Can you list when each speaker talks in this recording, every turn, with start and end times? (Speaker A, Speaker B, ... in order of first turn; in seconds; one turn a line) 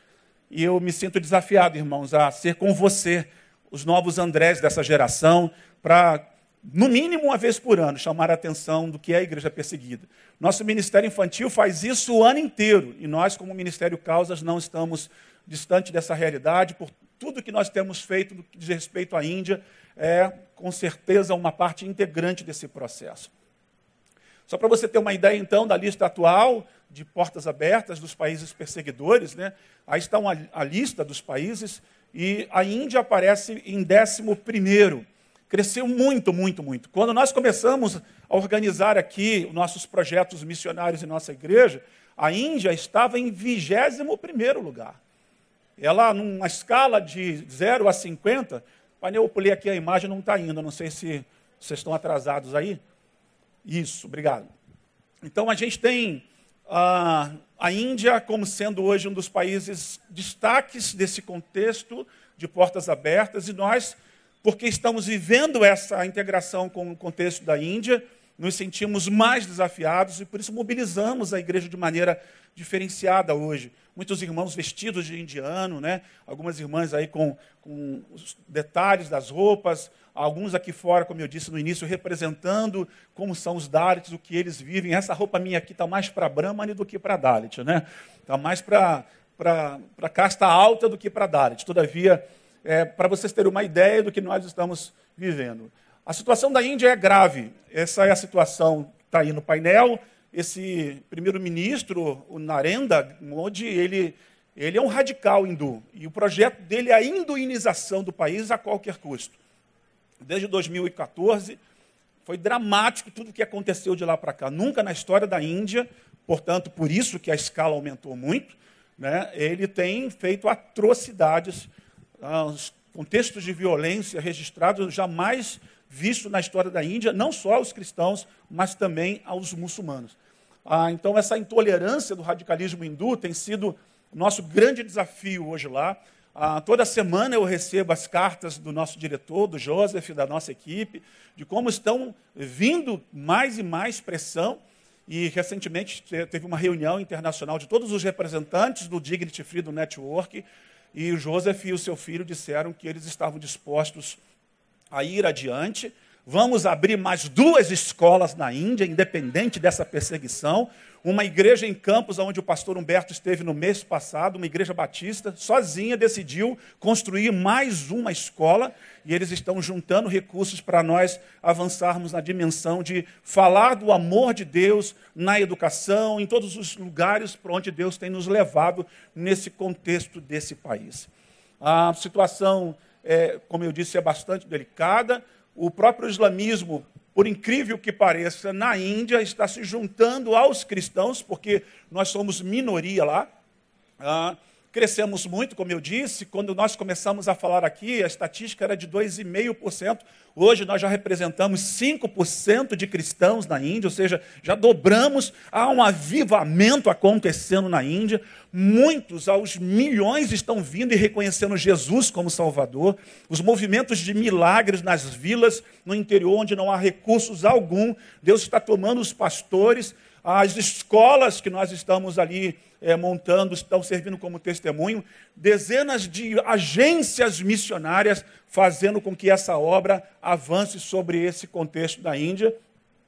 Speaker A: 0.5-23.3
Speaker A: 24.5-45.0
Speaker A: 45.8-52.8
Speaker A: 53.6-54.5
Speaker A: 55.2-109.4
Speaker A: 110.2-111.6
Speaker A: 112.2-121.7
Speaker A: 122.2-130.2
Speaker A: 130.7-154.2
Speaker A: 154.9-181.1
Speaker A: 181.6-193.3
Speaker A: 194.0-232.6